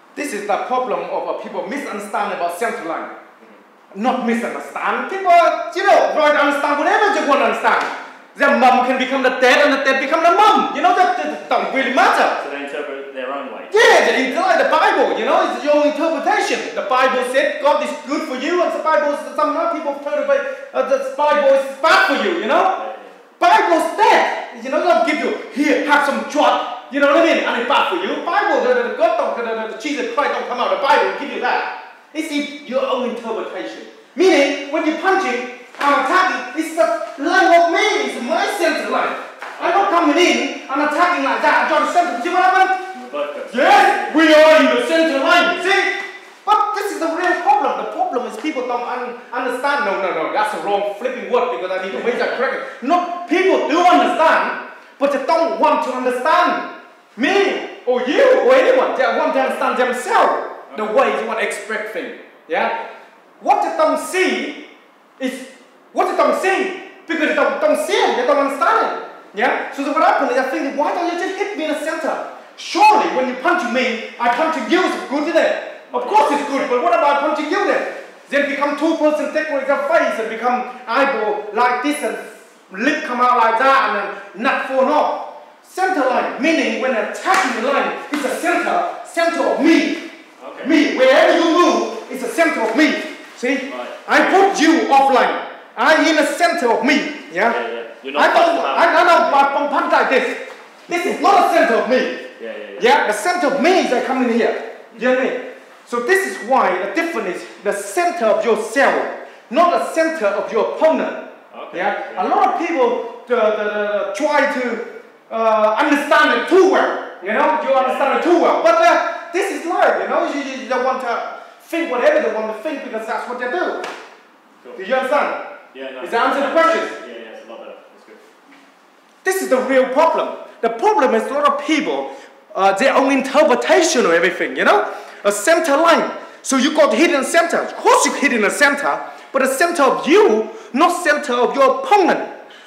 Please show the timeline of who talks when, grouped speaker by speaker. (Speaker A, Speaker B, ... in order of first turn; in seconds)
Speaker A: 0.1-3.1, 3.9-12.4, 13.7-22.8, 23.4-42.8, 43.5-62.8, 63.4-64.6, 65.2-90.0, 90.6-97.6, 98.1-102.2, 102.8-123.9, 124.8-125.4, 126.0-126.9, 129.2-142.3
Speaker B: 12.4-14.5, 22.7-23.2, 39.5-40.0, 42.9-44.3, 51.9-52.4, 59.3-59.8, 75.9-76.8, 90.4-90.8, 93.7-94.5, 97.4-99.5, 100.9-101.2, 102.4-102.9, 111.5-112.3, 117.7-118.4, 125.7-128.2